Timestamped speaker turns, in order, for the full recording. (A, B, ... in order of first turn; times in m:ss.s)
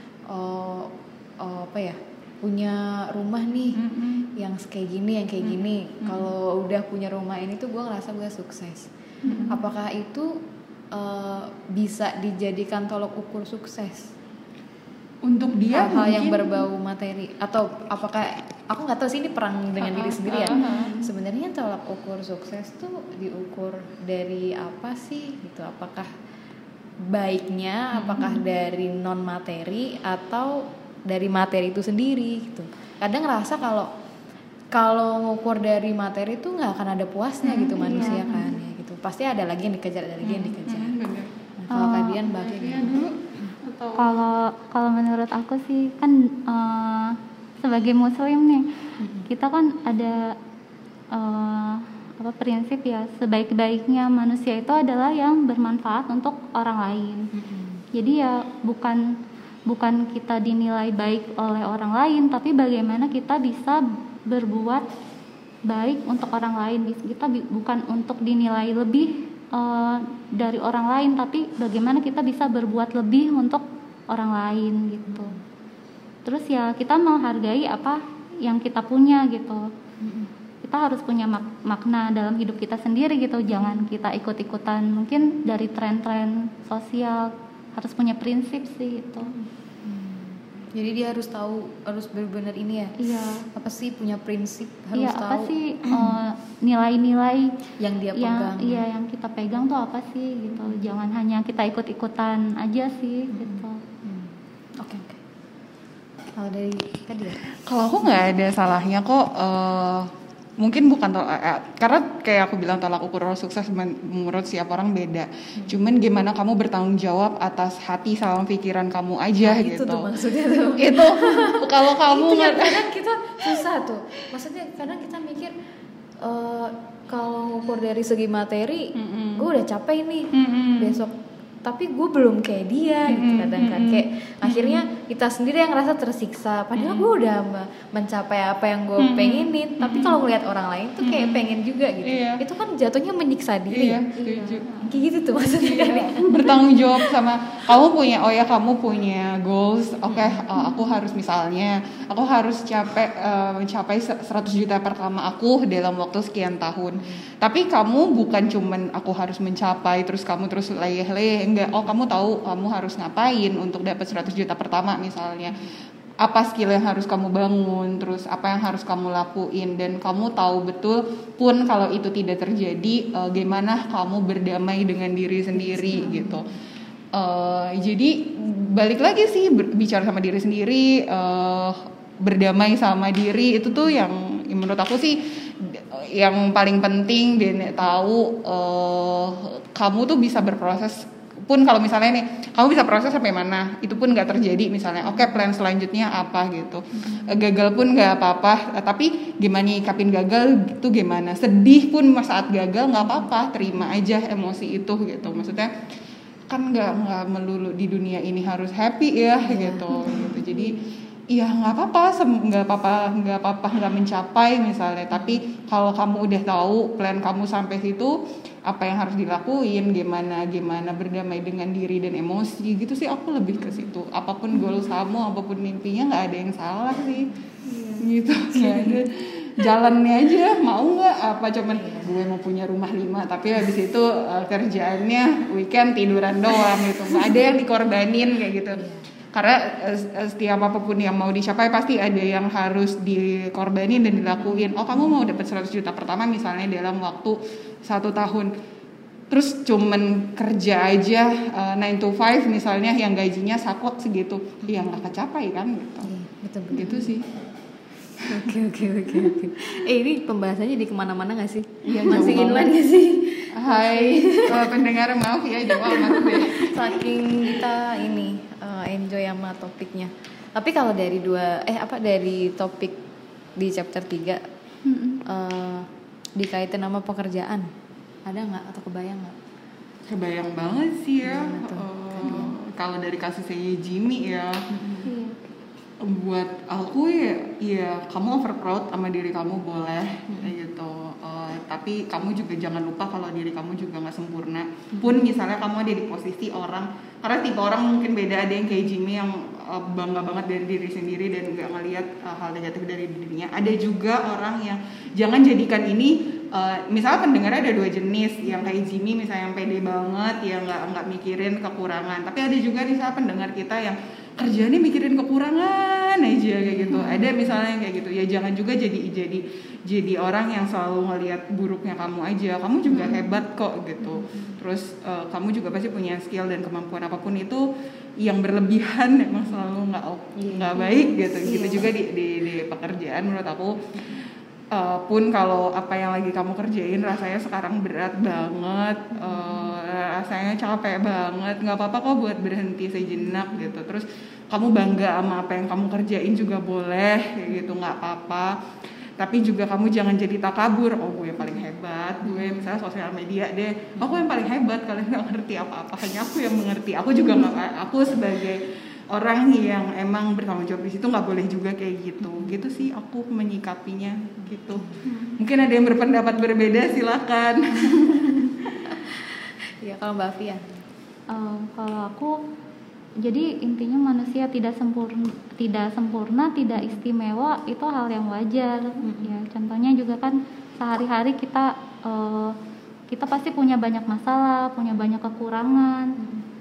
0:00.3-0:03.8 A
0:03.7-0:04.3 B
0:04.3-0:08.9 A
0:05.4-0:06.3 B
0:09.2-0:09.6 B
0:09.2-0:09.5 C
0:09.5-0:10.4 A
0:10.9-0:14.1 A
0:15.2-0:16.6 B
0:15.7-0:26.1 A
0:20.0-0:20.9 B
0:20.3-0:21.1 C
0:27.0-0:33.9 A
0:28.0-0:28.3 B
0:28.1-0:28.4 C
0:34.7-0:40.9 A
0:37.4-0:38.6 C
0:37.9-0:38.4 B
0:40.2-0:41.3 B
0:41.6-0:43.5 A
0:41.7-0:42.2 C
0:42.2-0:44.2 B
0:44.0-0:48.7 C
0:49.0-0:49.3 A
0:49.2-0:50.4 C
0:51.1-0:57.3 C
0:57.3-0:57.8 A
0:57.9-0:59.0 C
0:59.7-1:04.9 C
1:05.7-1:15.3 C
1:15.1-1:15.4 A
1:16.2-1:19.7 C
1:20.0-1:20.3 A
1:20.6-1:29.3 C
1:23.5-1:23.8 A
1:29.2-1:33.0 A
1:33.0-1:33.4 C
1:33.5-1:36.2 A
1:34.9-1:37.6 C
1:37.8-1:38.8 A
1:38.1-1:43.8 C
1:40.6-1:40.8 A
1:43.3-1:45.2 A
1:46.4-1:47.4 A
1:47.6-2:02.9 B
1:59.4-2:05.5 A
2:06.2-2:24.1 A
2:08.9-2:09.5 B
2:10.3-2:11.0 B
2:13.1-2:14.8 B
2:16.8-2:17.1 B
2:19.0-2:20.3 B
2:21.0-2:22.4 B
2:23.7-2:24.9 B
2:24.2-2:24.7 C
2:24.8-2:26.7 A
2:25.6-2:45.7 B
2:30.1-2:30.4 A
2:46.2-2:56.5 B
2:55.5-2:56.5 A
2:57.1-3:25.7 B
3:26.5-3:30.8 B
3:29.4-3:30.4 A
3:29.9-3:30.6 C
3:31.3-3:47.3 B
3:47.6-3:49.0 C
3:48.0-4:08.5 B
3:51.8-3:52.2 A
3:58.8-3:59.0 A
4:05.0-4:05.3 A
4:09.3-4:16.1 B
4:14.6-4:15.0 A
4:16.0-4:17.1 A
4:16.7-4:17.3 B
4:18.2-4:24.9 A
4:21.8-4:22.7 B
4:23.5-4:27.5 B
4:25.7-4:33.0 A
4:33.6-4:34.4 A
4:34.8-4:35.2 C
4:35.2-4:37.7 A
4:38.2-4:39.4 A
4:40.1-4:44.7 B
4:41.2-4:42.5 A
4:44.7-4:45.1 A
4:45.0-4:45.4 C
4:46.0-5:27.6 B
4:54.9-4:55.2 A
5:16.7-5:17.4 A
5:16.9-5:17.2 C
5:22.9-5:23.2 A
5:22.9-5:23.2 C
5:24.0-5:24.5 A
5:28.2-5:48.5 B
5:30.4-5:31.9 A
5:30.8-5:31.0 C
5:39.2-5:39.7 A
5:49.2-6:08.8 B
5:54.0-5:54.2 A
6:02.2-6:02.6 A
6:08.9-6:10.7 A
6:11.3-6:12.4 C
6:13.2-6:22.6 C
6:19.0-6:19.3 A
6:23.1-6:26.2 C
6:26.2-6:26.4 A